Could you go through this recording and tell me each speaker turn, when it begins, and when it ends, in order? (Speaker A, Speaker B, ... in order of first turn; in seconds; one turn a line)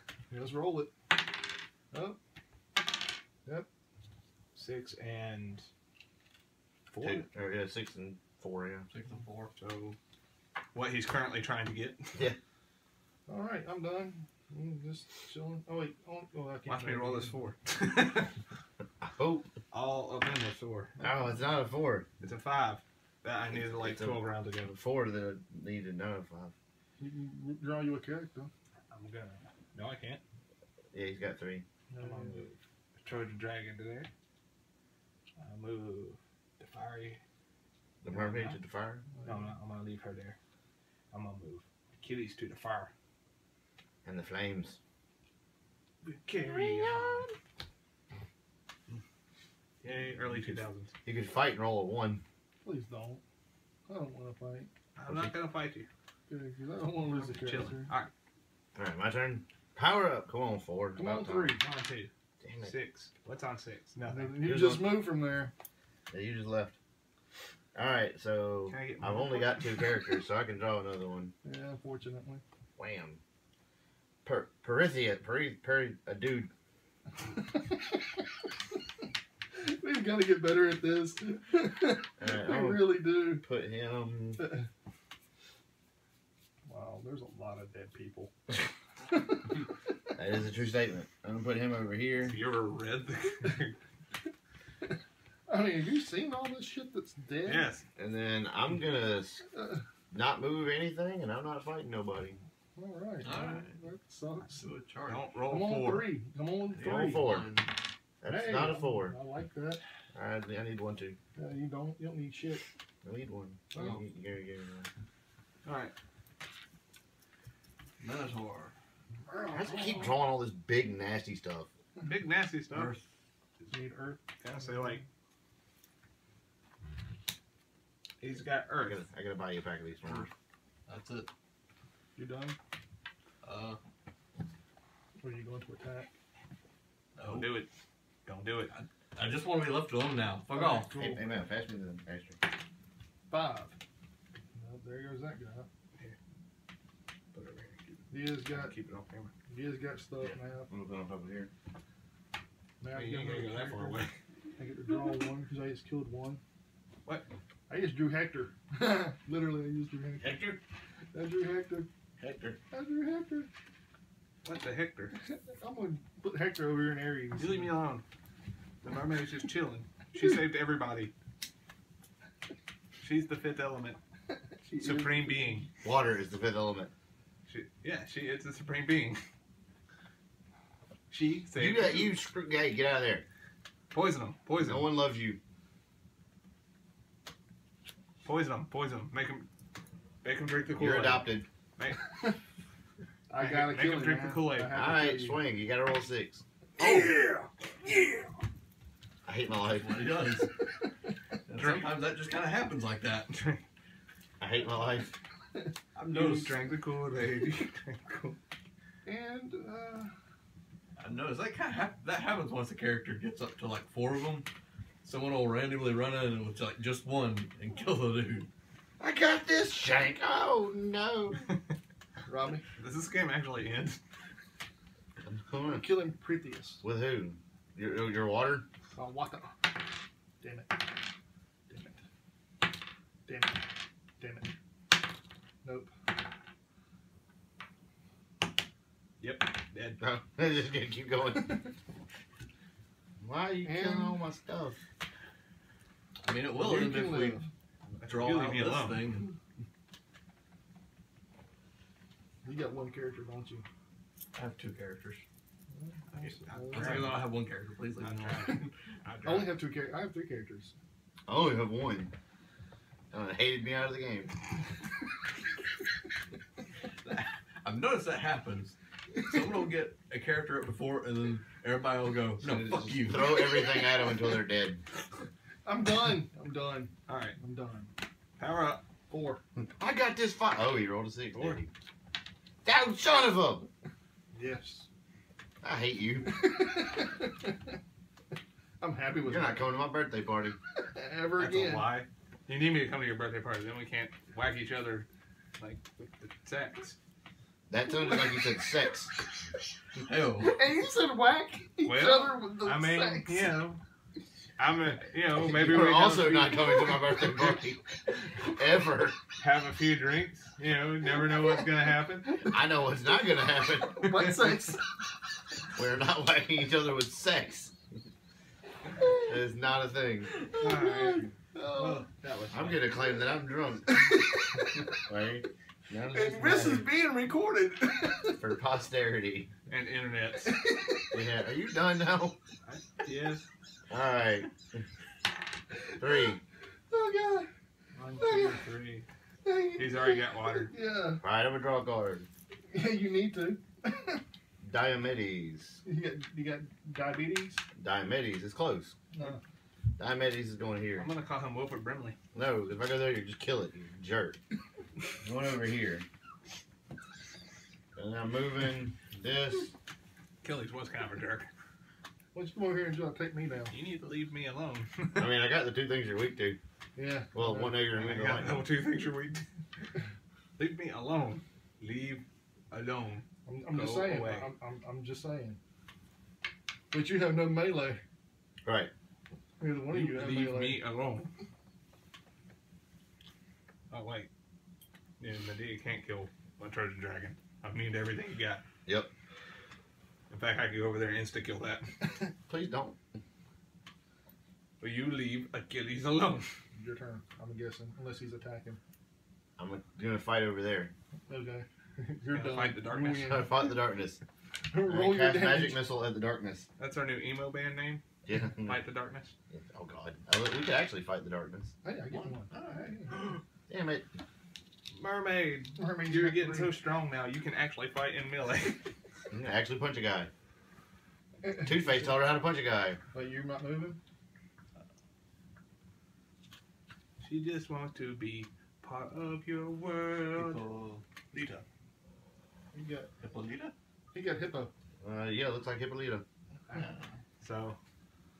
Speaker A: 0.3-0.9
Speaker A: 1.9-2.2
Speaker B: 4.5-5.7
Speaker B: 6.9-7.2
Speaker C: 7.0-8.9
Speaker D: 8.9-9.5
Speaker B: 9.6-10.0
Speaker B: 10.7-12.2
Speaker A: 13.3-17.3
Speaker B: 16.7-18.3
Speaker C: 19.0-19.5
Speaker B: 19.7-20.9
Speaker C: 21.0-22.1
Speaker B: 22.2-24.7
Speaker C: 23.5-26.5
Speaker A: 27.0-28.5
Speaker B: 28.9-30.2
Speaker C: 30.9-31.6
Speaker A: 31.9-32.5
Speaker B: 32.0-34.1
Speaker B: 35.4-37.2
Speaker C: 38.0-39.0
Speaker B: 38.1-38.6
Speaker A: 39.1-39.5
Speaker B: 39.2-40.4
Speaker B: 41.1-42.9
Speaker C: 44.0-44.8
Speaker B: 46.0-47.2
Speaker C: 46.4-47.3
Speaker B: 49.8-50.9
Speaker C: 50.2-52.2
Speaker A: 52.6-53.2
Speaker A: 53.9-54.7
Speaker B: 55.0-55.9
Speaker C: 55.0-55.3
Speaker A: 56.3-57.9
Speaker B: 57.1-58.1
Speaker C: 58.7-61.5
Speaker A: 60.9-61.6
Speaker B: 61.5-62.1
Speaker C: 62.4-62.7
Speaker B: 62.6-64.5
Speaker A: 64.0-65.5
Speaker C: 64.4-65.0
Speaker C: 66.1-66.7
Speaker C: 67.7-71.3
Speaker B: 68.7-69.9
Speaker A: 71.4-72.4
Speaker C: 72.8-73.2
Speaker C: 74.2-76.5
Speaker A: 77.3-78.0
Speaker A: 79.5-83.4
Speaker C: 82.2-84.5
Speaker A: 84.4-84.7
Speaker A: 86.7-88.3
Speaker A: 89.1-89.5
Speaker C: 90.2-92.4
Speaker B: 92.2-93.7
Speaker A: 95.5-97.7
Speaker B: 97.4-97.8
Speaker C: 98.0-99.4
Speaker A: 99.5-99.8
Speaker C: 100.1-102.4
Speaker A: 102.8-104.7
Speaker D: 103.2-103.8
Speaker D: 104.5-105.2
Speaker B: 105.1-106.1
Speaker A: 105.5-107.3
Speaker D: 106.7-107.7
Speaker C: 106.8-107.5
Speaker C: 108.2-109.1
Speaker A: 108.2-109.8
Speaker C: 110.1-111.2
Speaker A: 111.3-112.6
Speaker C: 113.0-114.9
Speaker A: 113.7-114.0
Speaker B: 115.6-115.9
Speaker D: 118.0-118.7
Speaker A: 119.3-120.1
Speaker C: 119.5-121.7
Speaker B: 122.0-122.9
Speaker D: 122.7-123.0
Speaker A: 123.7-124.9
Speaker B: 124.4-125.0
Speaker B: 128.2-129.0
Speaker C: 128.8-130.3
Speaker D: 130.1-130.3
Speaker D: 130.9-131.3
Speaker A: 132.2-132.6
Speaker D: 133.4-133.8
Speaker A: 135.2-136.1
Speaker D: 137.2-137.5
Speaker B: 137.2-137.7
Speaker B: 138.2-138.7
Speaker D: 138.7-141.0
Speaker A: 140.5-141.2
Speaker C: 140.9-142.4
Speaker A: 143.3-143.7
Speaker A: 144.5-145.7
Speaker B: 147.3-149.3
Speaker A: 148.1-148.7
Speaker A: 149.5-150.7
Speaker C: 150.7-151.5
Speaker A: 152.8-154.0
Speaker B: 152.9-154.1
Speaker A: 154.6-156.4
Speaker A: 157.7-160.4
Speaker C: 160.2-160.6
Speaker A: 161.1-161.9
Speaker C: 162.2-162.6
Speaker A: 162.7-163.5
Speaker B: 164.4-165.2
Speaker A: 165.2-167.8
Speaker B: 167.4-168.0
Speaker B: 168.8-171.1
Speaker B: 173.0-174.0
Speaker A: 174.5-175.7
Speaker B: 174.8-175.7
Speaker C: 175.8-176.9
Speaker B: 177.5-179.2
Speaker A: 181.1-181.5
Speaker B: 181.1-182.1
Speaker C: 181.5-183.2
Speaker B: 183.9-184.9
Speaker C: 184.6-185.4
Speaker B: 188.2-189.5
Speaker B: 190.2-191.2
Speaker C: 190.8-191.4
Speaker B: 191.8-192.2
Speaker A: 193.3-195.4
Speaker B: 193.4-194.8
Speaker C: 194.7-197.1
Speaker B: 196.8-198.3
Speaker C: 199.2-200.2
Speaker D: 199.6-200.5
Speaker D: 201.5-203.3
Speaker B: 201.6-201.9
Speaker B: 203.3-203.6
Speaker C: 204.4-205.1
Speaker D: 205.9-206.7
Speaker B: 206.0-208.4
Speaker A: 209.0-210.1
Speaker D: 211.0-214.4
Speaker D: 215.0-218.5
Speaker C: 219.0-221.5
Speaker A: 222.3-222.6
Speaker B: 222.8-224.0
Speaker C: 225.2-225.9
Speaker A: 225.6-226.8
Speaker C: 226.8-228.6
Speaker A: 228.9-229.8
Speaker A: 230.4-231.0
Speaker A: 231.7-232.0
Speaker A: 233.2-234.5
Speaker A: 235.6-235.9
Speaker B: 239.2-240.0
Speaker C: 240.0-241.6
Speaker C: 243.2-244.8
Speaker A: 243.6-244.2
Speaker D: 246.2-247.4
Speaker A: 246.5-247.5
Speaker B: 248.0-249.1
Speaker D: 248.0-249.3
Speaker A: 252.4-253.7
Speaker D: 254.3-255.2
Speaker A: 255.7-257.2
Speaker B: 256.1-257.3
Speaker D: 256.7-258.7
Speaker B: 258.0-259.6
Speaker A: 259.2-260.8
Speaker C: 261.3-262.1
Speaker C: 263.1-264.3
Speaker D: 267.0-273.4
Speaker C: 272.4-274.8
Speaker A: 275.6-277.9
Speaker B: 277.1-277.4
Speaker B: 278.4-278.8
Speaker A: 279.1-279.4
Speaker C: 279.6-281.7
Speaker C: 282.6-283.7
Speaker A: 284.3-284.9
Speaker C: 285.6-286.3
Speaker A: 286.2-287.8
Speaker A: 288.8-289.7
Speaker C: 289.3-290.6
Speaker A: 290.8-291.9
Speaker B: 291.4-295.1
Speaker B: 295.6-296.9
Speaker C: 297.7-299.1
Speaker A: 297.9-298.6
Speaker D: 300.0-300.5
Speaker A: 300.4-303.5
Speaker B: 301.8-303.8
Speaker B: 304.6-306.7
Speaker C: 305.3-309.2
Speaker A: 306.8-307.3
Speaker B: 309.4-312.4
Speaker C: 312.4-314.2
Speaker A: 313.8-314.8
Speaker B: 314.1-314.6
Speaker C: 315.7-317.7
Speaker A: 319.0-319.3
Speaker C: 319.2-320.3
Speaker B: 320.5-322.9
Speaker A: 320.5-322.1
Speaker C: 322.5-324.0
Speaker A: 323.9-324.9
Speaker C: 324.9-326.9
Speaker A: 326.1-328.4
Speaker C: 328.4-329.5
Speaker B: 329.7-330.6
Speaker A: 330.4-331.1
Speaker C: 331.1-332.4
Speaker B: 332.6-333.4
Speaker C: 333.9-334.8
Speaker A: 335.9-336.2
Speaker C: 336.0-336.4
Speaker A: 336.9-338.7
Speaker B: 338.0-339.1
Speaker A: 339.4-341.2
Speaker B: 339.8-340.7
Speaker C: 341.2-342.3
Speaker A: 342.7-344.2
Speaker C: 344.6-345.8
Speaker A: 345.8-347.6
Speaker C: 347.7-348.9
Speaker A: 349.1-349.4
Speaker C: 350.0-351.1
Speaker B: 351.0-352.2
Speaker C: 352.3-354.4
Speaker C: 355.2-356.1
Speaker C: 357.9-359.7
Speaker B: 360.4-361.5
Speaker A: 362.3-363.8
Speaker B: 363.7-365.3
Speaker C: 365.1-366.6
Speaker A: 366.9-368.1
Speaker C: 367.3-368.7
Speaker B: 367.9-369.4
Speaker B: 370.6-374.5
Speaker A: 373.4-375.6
Speaker A: 376.9-378.0
Speaker C: 378.6-378.9
Speaker A: 379.6-380.8
Speaker B: 379.9-381.3
Speaker B: 383.9-384.3
Speaker B: 385.2-388.6
Speaker C: 388.9-389.1
Speaker B: 390.3-391.9
Speaker C: 392.5-393.0
Speaker B: 394.8-396.5
Speaker A: 396.7-398.8
Speaker C: 399.6-400.9
Speaker A: 401.3-403.6
Speaker B: 402.3-403.4
Speaker C: 403.1-404.2
Speaker A: 404.7-405.8
Speaker C: 404.9-406.7
Speaker B: 406.8-408.0
Speaker C: 408.2-408.8
Speaker B: 408.6-409.3
Speaker C: 409.5-411.7
Speaker A: 411.8-413.1
Speaker D: 412.1-413.3
Speaker C: 413.7-414.1
Speaker B: 414.9-418.9
Speaker A: 415.8-416.7
Speaker C: 419.3-420.3
Speaker A: 421.4-421.8
Speaker C: 421.6-423.0
Speaker A: 423.1-424.0
Speaker B: 427.2-430.6
Speaker D: 430.3-431.6
Speaker A: 432.7-433.1
Speaker D: 433.2-433.7
Speaker A: 434.1-434.7
Speaker C: 435.0-436.2
Speaker D: 436.7-437.1
Speaker B: 437.4-437.8